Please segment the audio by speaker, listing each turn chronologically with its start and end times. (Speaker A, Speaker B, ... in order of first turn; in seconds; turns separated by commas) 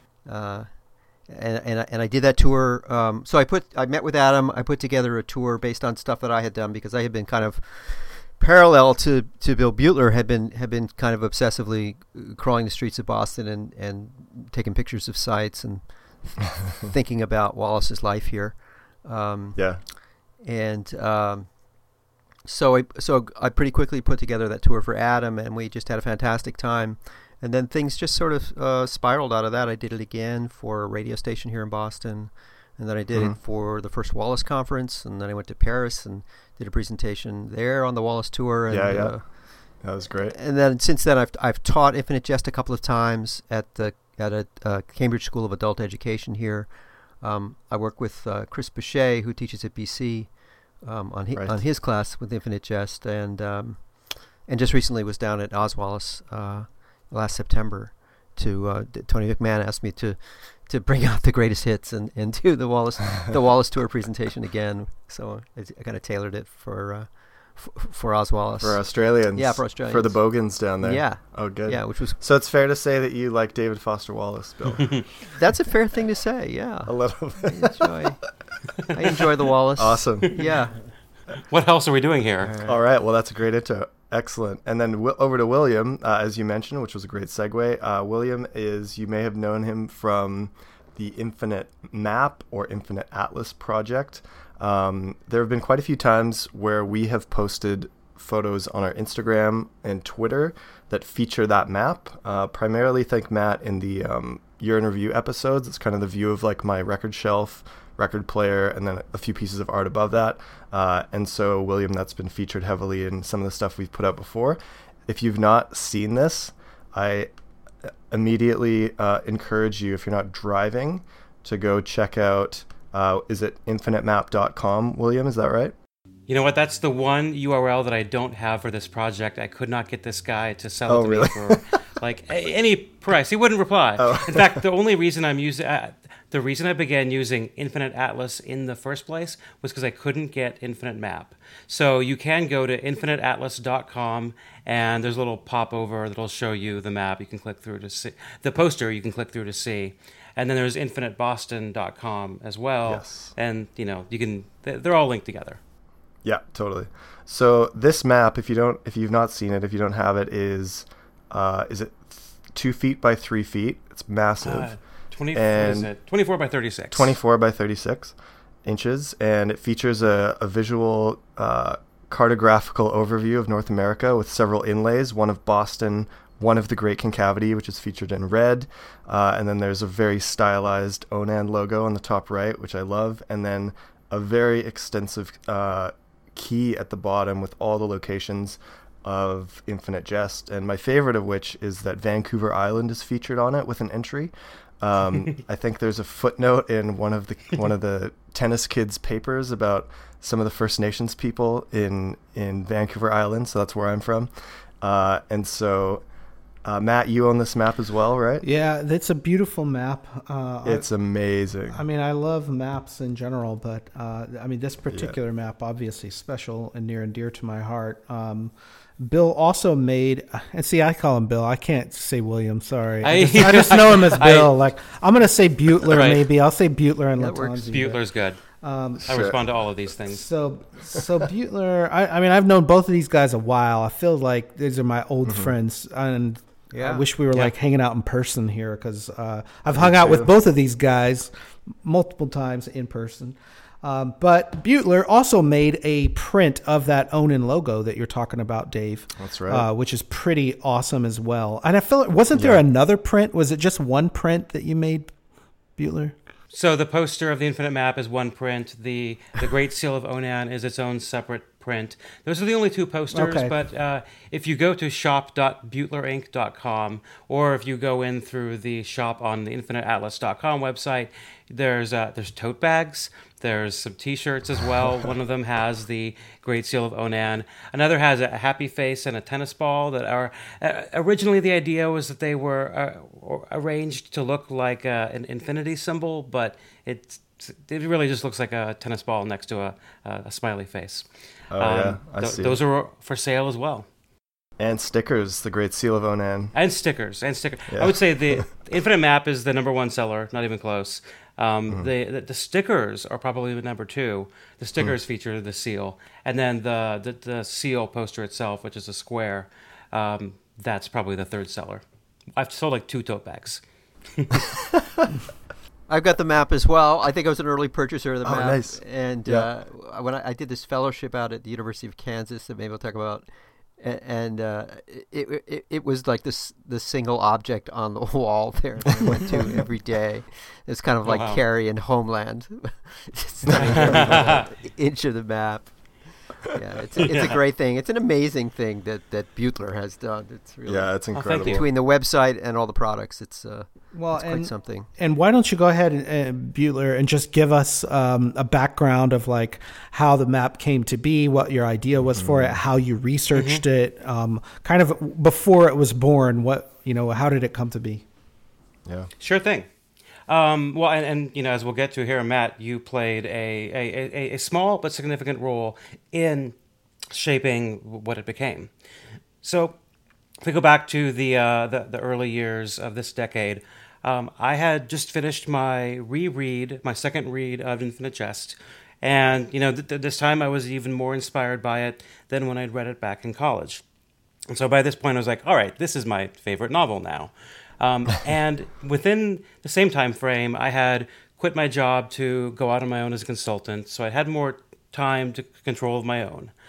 Speaker A: 0.2-21.6, Speaker B: 19.6-19.8, Speaker A: 22.4-39.8, Speaker B: 38.7-40.4, Speaker A: 40.3-72.2, Speaker B: 51.3-51.6, Speaker B: 68.6-75.0, Speaker A: 75.3-78.2, Speaker B: 76.8-78.1, Speaker A: 78.9-80.8, Speaker B: 79.7-80.3, Speaker C: 81.4-82.5, Speaker B: 82.5-117.3, Speaker B: 118.1-125.7, Speaker C: 126.3-155.6, Speaker B: 130.9-131.6, Speaker B: 134.0-134.6, Speaker B: 152.8-153.3, Speaker B: 156.2-164.8, Speaker C: 164.4-167.1, Speaker B: 165.3-165.9, Speaker B: 166.9-206.0, Speaker B: 206.6-208.4, Speaker D: 208.4-210.9, Speaker B: 210.6-211.8, Speaker D: 211.7-228.0, Speaker C: 223.0-224.5, Speaker C: 225.9-226.2, Speaker A: 227.2-227.9, Speaker C: 227.7-228.4, Speaker D: 228.6-229.1, Speaker C: 229.1-230.2, Speaker B: 229.1-229.4, Speaker D: 230.1-241.3, Speaker B: 235.2-235.5, Speaker A: 236.7-237.0, Speaker B: 239.8-240.3, Speaker D: 241.8-255.1, Speaker B: 249.2-249.7, Speaker B: 252.3-252.6, Speaker D: 255.8-256.2, Speaker C: 256.5-293.9, Speaker D: 263.1-263.5, Speaker B: 291.5-292.6, Speaker B: 294.6-296.5, Speaker C: 296.5-311.8, Speaker B: 297.7-298.4, Speaker C: 312.4-313.6, Speaker C: 314.1-314.5, Speaker A: 315.9-323.3, Speaker B: 318.2-319.5, Speaker A: 323.8-344.9, Speaker C: 331.0-331.4, Speaker C: 333.5-334.5, Speaker B: 333.6-334.2, Speaker C: 337.0-337.4, Speaker B: 340.6-341.6, Speaker C: 341.1-341.6, Speaker D: 343.9-358.0, Speaker B: 352.1-352.5, Speaker C: 353.3-353.6, Speaker C: 359.2-359.7, Speaker C: 360.3-366.6, Speaker C: 367.1-368.7, Speaker C: 369.4-369.8, Speaker C: 370.4-383.8, Speaker C: 384.5-396.5